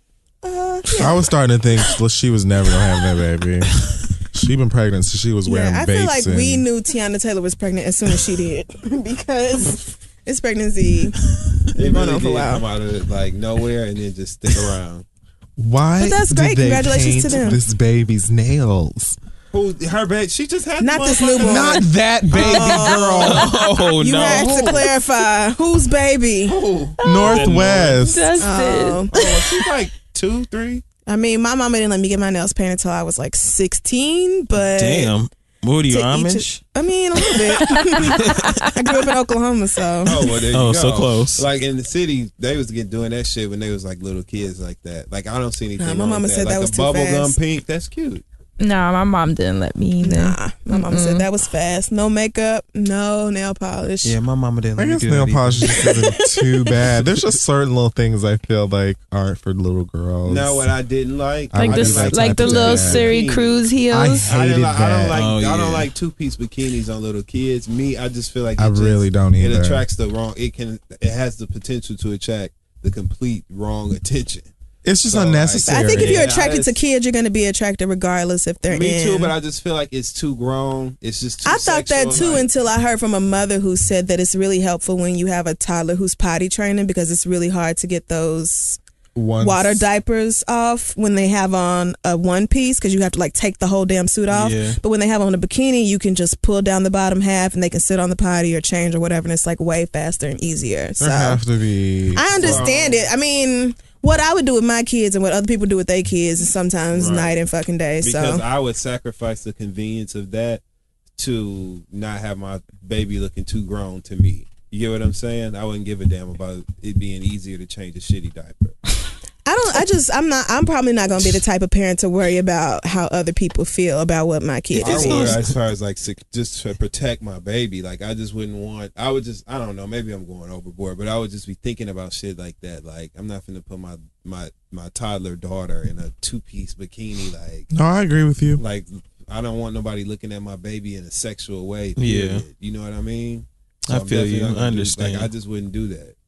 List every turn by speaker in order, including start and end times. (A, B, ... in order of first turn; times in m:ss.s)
0:00.4-0:01.3 A
0:01.0-0:06.6 B
0:05.4-0:11.2 A
0:11.7-0:12.6 A
0:11.7-0:15.0 C
0:15.6-0:19.2 B
0:16.0-0:17.6 A
0:19.5-0:21.8 C
0:20.8-0:26.6 A
0:21.4-0:23.5 B
0:23.2-0:24.8 D
0:26.4-0:27.9 C
0:27.0-0:27.5 E
0:27.0-0:28.4 B
0:27.2-0:28.0 D
0:28.0-0:29.0 E
0:28.4-0:29.5 A
0:29.1-0:30.8 C
0:31.0-0:35.1 A
0:34.6-0:36.6 D
0:35.9-0:40.3 A
0:38.1-0:38.7 D
0:40.0-0:48.2 C
0:40.5-0:41.4 D
0:45.8-0:47.4 A
0:48.6-0:51.2 E
0:50.0-0:54.2 A
0:54.0-0:56.0 D
0:54.8-1:00.7 B
0:55.8-0:56.5 A
1:00.2-1:03.6 C
1:01.5-1:03.2 B
1:01.5-1:04.2 E
1:03.9-1:05.2 B
1:04.2-1:14.5 C
1:05.1-1:05.9 D
1:08.6-1:09.8 B
1:14.8-1:16.2 B
1:15.0-1:16.8 C
1:15.6-1:19.3 A
1:18.7-1:22.5 C
1:21.4-1:28.8 A
1:29.1-1:29.8 B
1:29.4-1:41.4 A
1:34.3-1:34.8 D
1:41.0-1:42.6 B
1:42.2-1:48.4 A
1:42.3-1:43.1 C
1:46.9-1:47.3 C
1:48.0-1:50.6 C
1:51.2-1:58.8 C
1:59.4-2:05.4 A
2:04.7-2:05.5 D
2:04.8-2:17.7 C
2:17.7-2:18.6 B
2:18.6-2:26.1 C
2:22.0-2:22.4 D
2:23.9-2:25.3 D